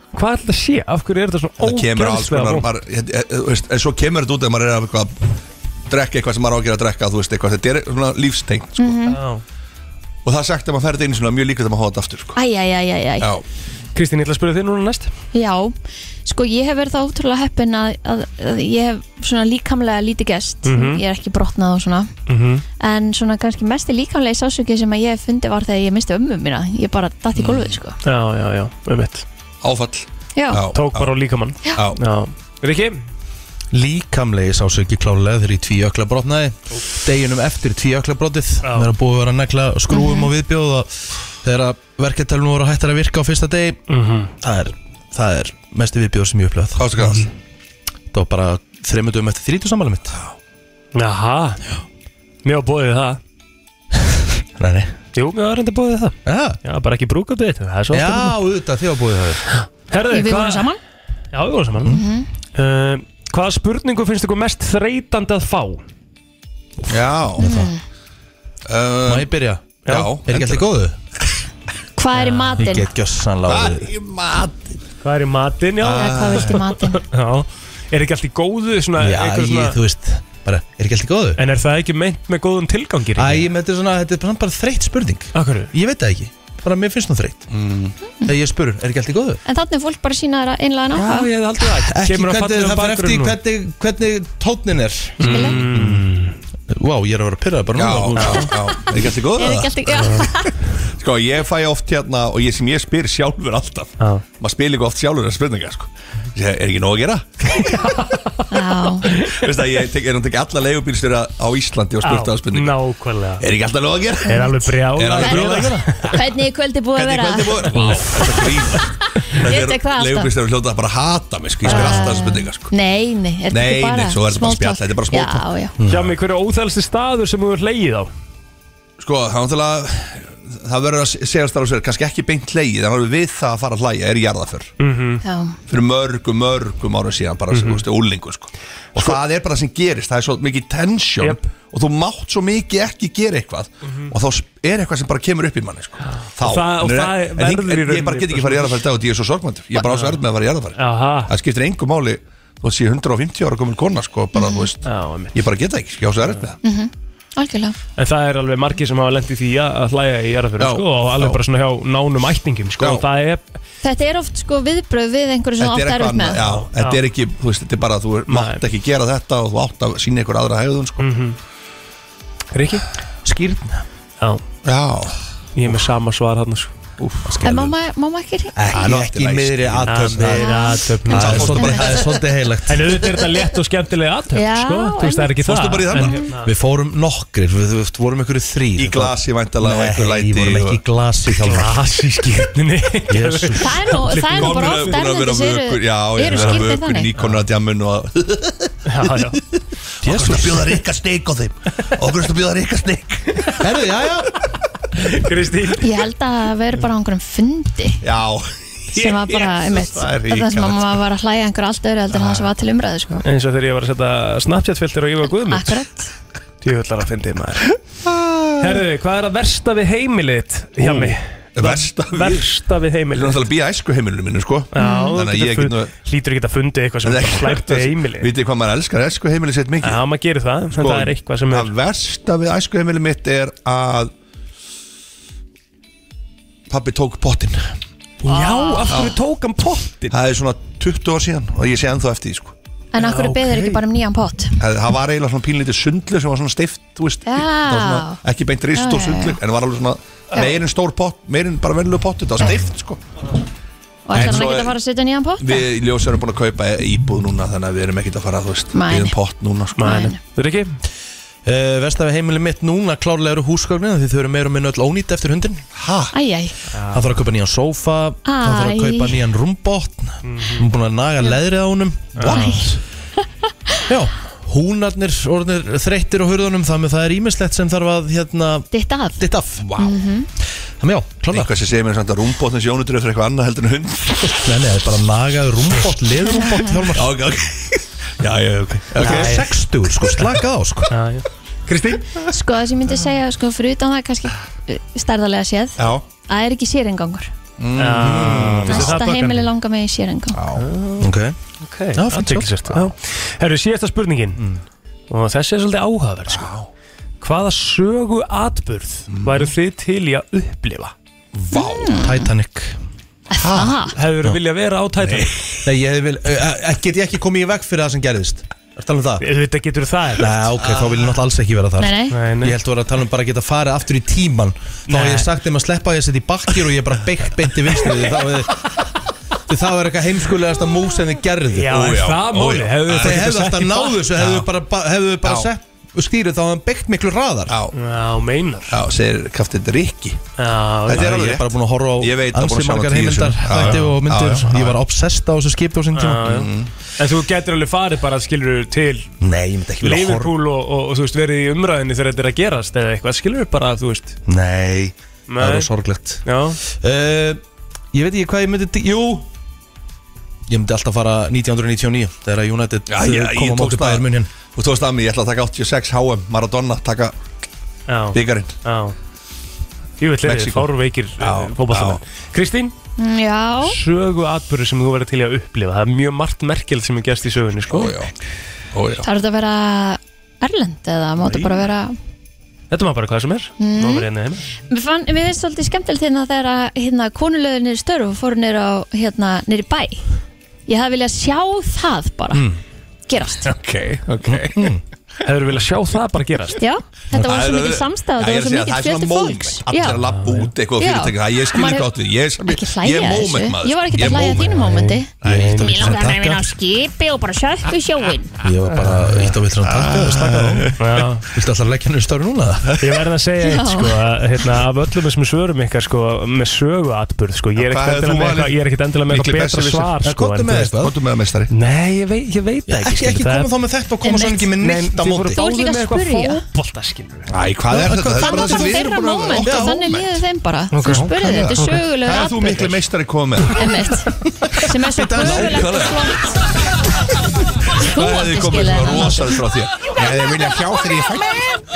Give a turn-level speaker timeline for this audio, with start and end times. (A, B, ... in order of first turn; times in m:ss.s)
0:00.1-0:02.7 A
0:01.6-0:05.2 B
0:05.9-0:09.1 B
0:08.8-0:09.2 C
0:09.1-0:09.4 A
0:10.2-0:12.4 B
0:12.4-0:13.3 C
0:13.2-0:13.4 B
0:14.0-0:15.1 A
0:15.3-0:22.1 C
0:20.6-0:21.0 A
0:22.3-0:22.6 A
0:22.8-0:28.0 C
0:28.0-0:29.2 A
0:29.6-0:31.2 B
0:30.4-0:30.6 C
0:30.7-0:33.0 A
0:31.7-0:32.0 B
0:33.7-0:43.8 D
0:38.6-0:38.9 A
0:39.9-0:40.3 C
0:43.9-0:44.3 A
0:44.4-0:47.0 D
0:46.8-0:47.3 B
0:48.1-0:50.2 D
0:50.9-0:51.6 A
0:52.4-0:53.2 A
0:54.6-0:54.9 D
0:55.2-0:58.4 A
0:56.3-0:56.6 D
0:57.9-0:59.4 D
0:59.5-1:00.7 A
1:00.1-1:00.8 C
1:01.3-1:02.0 A
1:01.9-1:02.3 C
1:02.6-1:05.8 A
1:06.9-1:07.5 B
1:07.4-1:07.7 D
1:07.4-1:07.8 C
1:08.7-1:09.4 B
1:09.1-1:11.0 D
1:09.9-1:10.1 A
1:09.9-1:10.7 B
1:12.0-1:12.9 C
1:12.1-1:12.7 A
1:12.6-1:13.9 D
1:13.5-1:14.8 B
1:15.0-1:19.8 A
1:15.8-1:16.6 B
1:15.9-1:17.0 C
1:19.0-1:21.4 D
1:21.4-1:23.5 A
1:23.2-1:27.4 D
1:25.4-1:25.7 A
1:27.5-1:27.9 B
1:28.2-1:29.4 D
1:29.4-1:31.3 C
1:30.9-1:33.4 A
1:31.8-1:36.1 D
1:35.2-1:36.4 A
1:35.2-1:35.6 C
1:36.7-1:38.4 D
1:37.7-1:40.3 B
1:38.1-1:38.5 A
1:38.5-1:40.6 C
1:40.9-1:47.9 B
1:47.5-1:48.3 A
1:48.5-1:49.1 C
1:49.1-1:49.4 A
1:49.2-1:52.8 B
1:52.0-1:53.4 A
1:53.4-1:56.2 B
1:54.2-1:56.2 A
1:55.2-1:57.8 C
1:57.0-2:02.7 B
1:57.7-1:58.4 A
1:58.8-2:00.3 C
2:01.7-2:02.2 A
2:01.7-2:05.8 C
2:03.5-2:05.5 B
2:05.8-2:06.1 D
2:05.9-2:08.1 A
2:09.0-2:14.7 B
2:14.8-2:15.2 A
2:15.2-2:15.6 C
2:15.7-2:36.6 B
2:17.5-2:17.8 A
2:26.1-2:28.8 A
2:29.8-2:30.2 A
2:30.8-2:31.3 A
2:34.3-2:34.7 C
2:34.8-2:35.4 A
2:36.6-2:37.8 C
2:38.0-2:43.4 A
2:40.6-2:41.4 B
2:42.8-2:43.0 B
2:43.8-2:46.4 C
2:45.6-2:51.1 B
2:46.5-2:47.0 A
2:48.3-2:48.6 A
2:51.0-2:51.4 A
2:52.5-2:52.8 A
2:53.2-2:53.8 D
2:54.6-2:55.2 B
2:55.6-2:56.7 A
2:57.0-2:57.5 B
2:57.3-2:57.8 D
2:57.4-2:58.9 C
2:58.6-3:03.0 D
2:58.6-3:00.4 B
2:59.8-3:01.9 A
3:00.3-3:02.0 C
3:01.1-3:02.2 B
3:02.7-3:06.5 A
3:04.4-3:05.3 C
3:05.4-3:06.3 B
3:06.0-3:06.2 C
3:06.4-3:11.8 D
3:08.8-3:10.8 B
3:11.4-3:15.0 A
3:13.1-3:13.9 D
3:13.6-3:17.1 C
3:14.3-3:19.1 B
3:17.2-3:17.4 A
3:18.9-3:19.4 A
3:20.0-3:20.7 D
3:20.0-3:23.4 B
3:23.6-3:24.3 D
3:25.0-3:26.0 A
3:25.8-3:28.0 C
3:28.0-3:31.0 B
3:29.0-3:33.2 C
3:32.1-3:32.5 B
3:33.2-3:35.8 A
3:35.5-3:36.1 C
3:36.6-3:37.8 A
3:38.0-3:38.8 B
3:38.6-3:43.4 A
3:40.8-3:42.5 B
3:43.1-3:45.9 B
3:44.7-3:48.3 A
3:44.8-3:45.2 C
3:47.0-3:50.0 B
3:49.8-3:51.7 A
3:50.7-3:54.1 B
3:56.7-3:57.8 B
3:58.2-4:00.2 A
3:58.3-3:58.9 C
3:58.9-3:59.2 B
4:00.1-4:02.5 B
4:02.9-4:04.6 C
4:03.0-4:03.8 A
4:04.6-4:13.0 B
4:07.3-4:08.2 C
4:08.8-4:09.4 C
4:14.1-4:15.7 C
4:14.1-4:14.8 B
4:15.4-4:20.0 B
4:18.7-4:19.2 C
4:19.8-4:20.8 A
4:19.8-4:20.2 C
4:21.4-4:25.6 D
4:25.8-4:26.2 B
4:26.1-4:26.6 C
4:26.7-4:27.1 A
4:26.9-4:32.8 D
4:28.2-4:29.2 C
4:30.2-4:30.7 A
4:32.2-4:32.6 A
4:32.2-4:33.7 C
4:33.9-4:39.6 D
4:38.7-4:39.2 C
4:39.6-4:40.0 B
4:39.8-4:40.3 C
4:40.8-4:41.5 D
4:41.3-4:44.5 B
4:44.4-4:47.1 D
4:46.3-4:46.8 C
4:46.9-4:49.4 B
4:49.0-4:50.3 A
4:49.0-4:51.0 D
4:50.9-4:52.1 A
4:52.3-4:57.3 C
4:55.8-4:56.0 B
4:57.6-4:58.8 B
4:57.8-4:59.5 A
4:58.0-4:59.0 D
4:58.7-5:00.4 C
5:00.3-5:00.7 B
5:00.6-5:01.1 A
5:01.0-5:01.4 D
5:01.6-5:04.4 A
5:01.9-5:02.8 D
5:04.4-5:04.6 D
5:05.1-5:06.5 A
5:06.3-5:06.7 B
5:07.2-5:10.9 A
5:09.1-5:09.5 B
5:11.5-5:12.1 B
5:11.5-5:12.3 C
5:11.9-5:12.8 D
5:13.3-5:14.0 C
5:13.4-5:13.9 B
5:13.9-5:15.4 A
5:15.6-5:19.2 D
5:19.2-5:20.5 A
5:20.2-5:28.7 D
5:21.8-5:22.2 C
5:22.1-5:22.6 A
5:24.9-5:25.3 A
5:27.8-5:28.1 A
5:29.5-5:31.8 D
5:31.6-5:34.1 A
5:31.7-5:33.2 B
5:32.9-5:37.6 D
5:34.1-5:34.5 B
5:35.2-5:35.5 B
5:37.5-5:37.8 B
5:37.7-5:38.8 A
5:38.7-5:40.2 B
5:40.4-5:41.2 A
5:40.9-5:44.8 B
5:40.9-5:46.4 D
5:43.5-5:43.9 A
5:46.0-5:49.2 A
5:46.3-5:46.7 B
5:49.2-5:50.3 D
5:49.8-5:54.2 A
5:54.3-5:57.4 D
5:55.3-5:55.7 A
5:56.2-5:56.6 A
5:57.9-5:59.3 D
6:00.5-6:04.3 D
6:02.9-6:07.2 B
6:07.9-6:09.0 A
6:08.1-6:08.5 B
6:10.0-6:12.7 A
6:10.2-6:12.0 B
6:13.0-6:13.8 C
6:13.6-6:18.0 A
6:17.7-6:18.1 B
6:18.7-6:19.1 B
6:19.0-6:22.0 C
6:22.7-6:24.5 A
6:23.6-6:24.1 C
6:24.7-6:30.0 C
6:30.7-6:32.5 C
6:32.3-6:32.6 D
6:33.1-6:33.5 C
6:33.4-6:34.7 B
6:34.5-6:34.8 D
6:35.2-6:36.6 A
6:36.6-6:40.0 C
6:37.1-6:44.6 B
6:39.9-6:40.5 A
6:40.8-6:41.9 C
6:42.4-6:48.3 C
6:44.2-6:45.9 A
6:45.2-6:46.1 B
6:45.3-6:46.5 D
6:48.4-6:50.7 D
6:48.8-6:49.4 A
6:49.7-6:51.0 B
6:50.8-6:51.2 A
6:51.3-6:52.8 D
6:52.8-7:00.8 A
6:53.4-6:54.0 C
6:57.6-7:00.0 B
7:00.0-7:00.9 D
7:00.7-7:01.5 B
7:01.5-7:03.5 A
7:02.7-7:05.4 D
7:04.0-7:04.6 C
7:04.6-7:07.3 A
7:05.3-7:06.4 C
7:07.3-7:10.2 B
7:07.7-7:08.7 D
7:08.1-7:12.7 C
7:09.4-7:10.0 D
7:10.8-7:11.7 A
7:10.8-7:11.5 D
7:11.9-7:13.8 B
7:13.5-7:16.4 C
7:14.8-7:15.7 D
7:15.2-7:16.3 B
7:17.7-7:19.4 C
7:17.8-7:21.5 B